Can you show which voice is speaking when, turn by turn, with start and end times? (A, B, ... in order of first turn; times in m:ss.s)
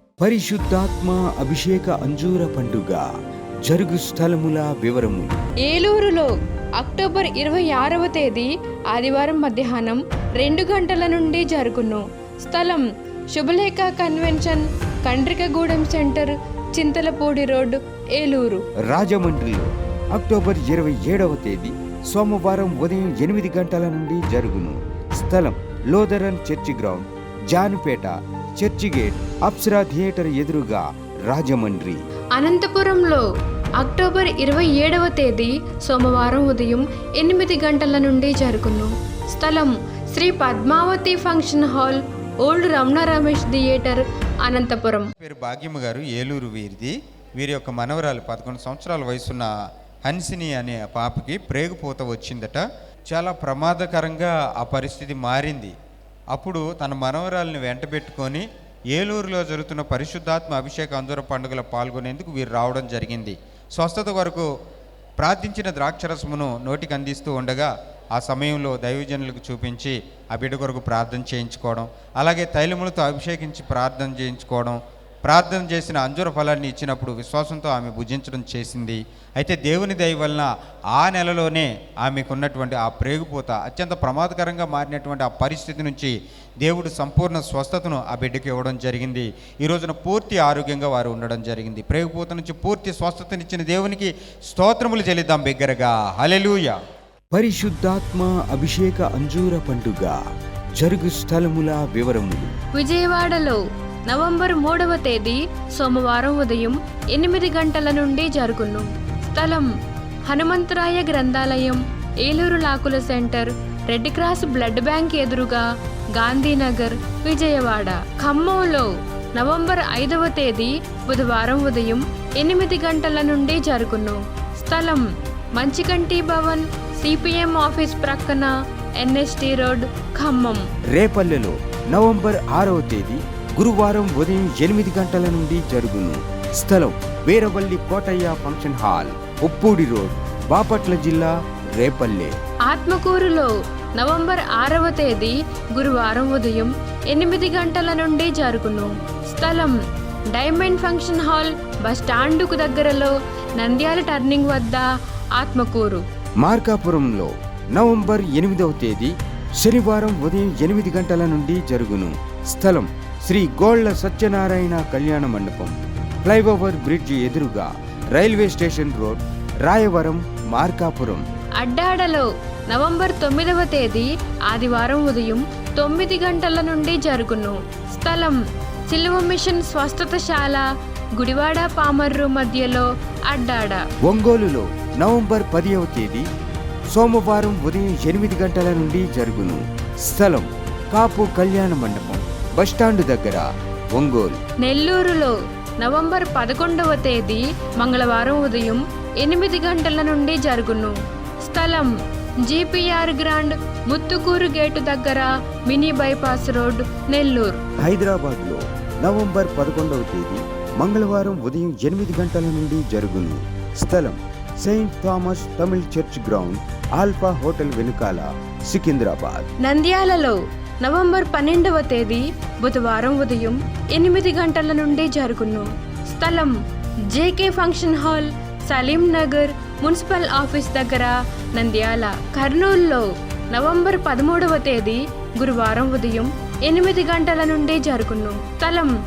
0:00.2-0:03.0 A
0:03.7-0:05.3 A
0:05.6-0:18.6 B
0:18.9-0:32.0 A
0:32.3-0:33.2 B
0:33.8-0:45.1 B
0:45.2-0:49.5 C
0:50.0-0:55.7 C
0:56.3-1:04.5 C
1:05.2-1:36.8 C
1:37.3-1:40.2 A
1:40.8-1:42.5 A
1:42.8-1:49.7 B
1:50.3-2:05.0 B
2:05.6-2:10.6 B
2:10.9-2:22.3 A
2:22.7-2:29.7 B
2:30.3-2:36.0 B
2:36.4-2:51.2 A
2:51.6-2:58.4 B
2:58.9-3:00.6 B
3:01.2-3:03.8 B
3:04.0-3:06.2 A
3:06.9-3:14.4 A
3:14.6-3:21.9 B
3:22.4-3:27.6 B
3:27.8-3:39.5 A
3:39.6-3:46.5 B
3:47.1-3:58.9 B